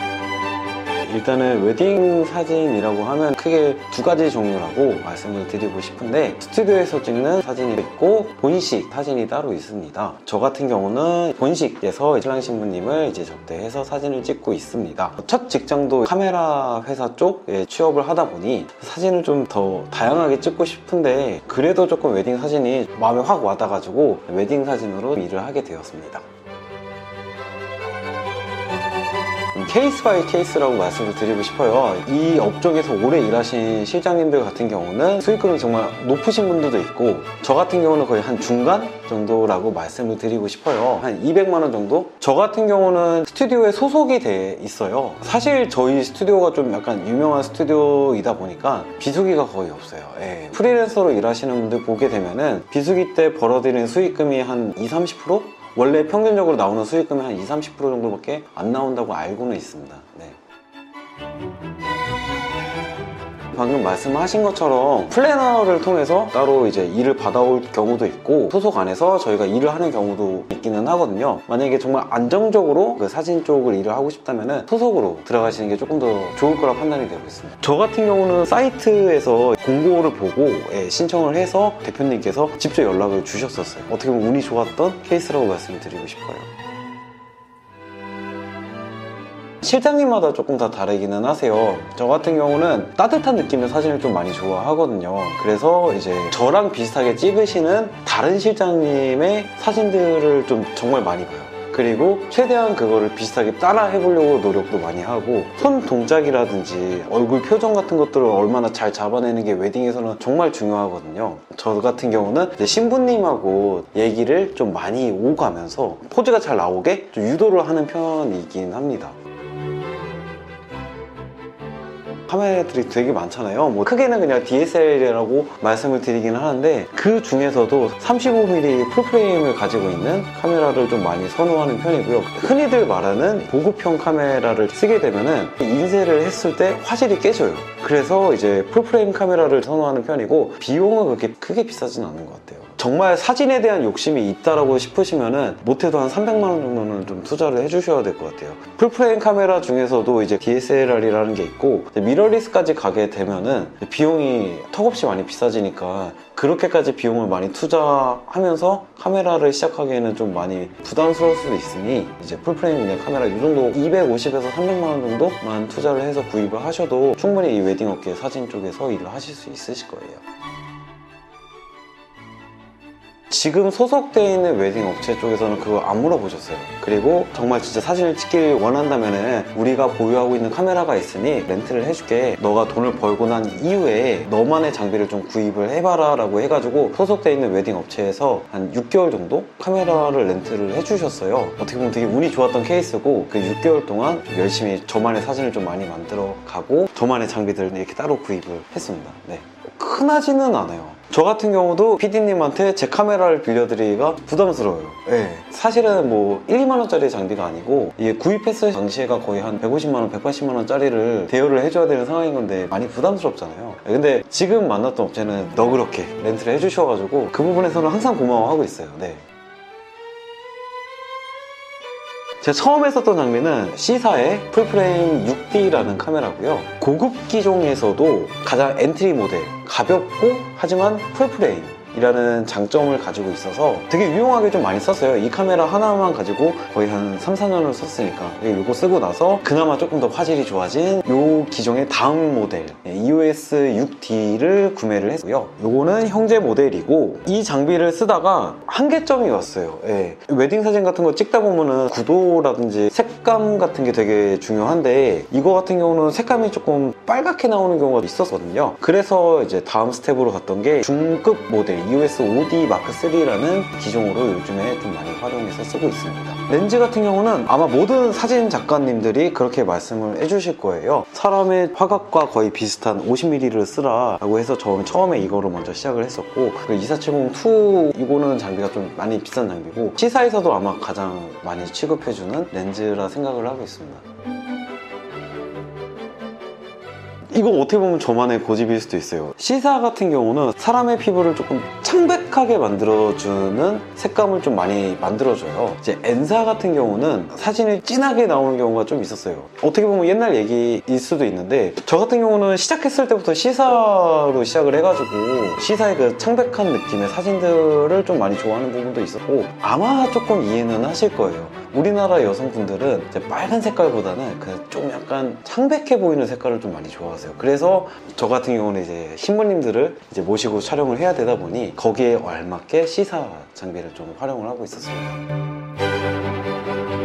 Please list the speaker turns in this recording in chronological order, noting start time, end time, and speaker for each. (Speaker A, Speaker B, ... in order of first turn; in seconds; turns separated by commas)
Speaker A: 1.0-26.2, Speaker A: 29.5-60.4, Speaker A: 63.5-86.5, Speaker A: 89.6-119.2, Speaker A: 122.3-170.2, Speaker A: 173.3-219.2, Speaker A: 222.4-284.0, Speaker A: 287.3-325.2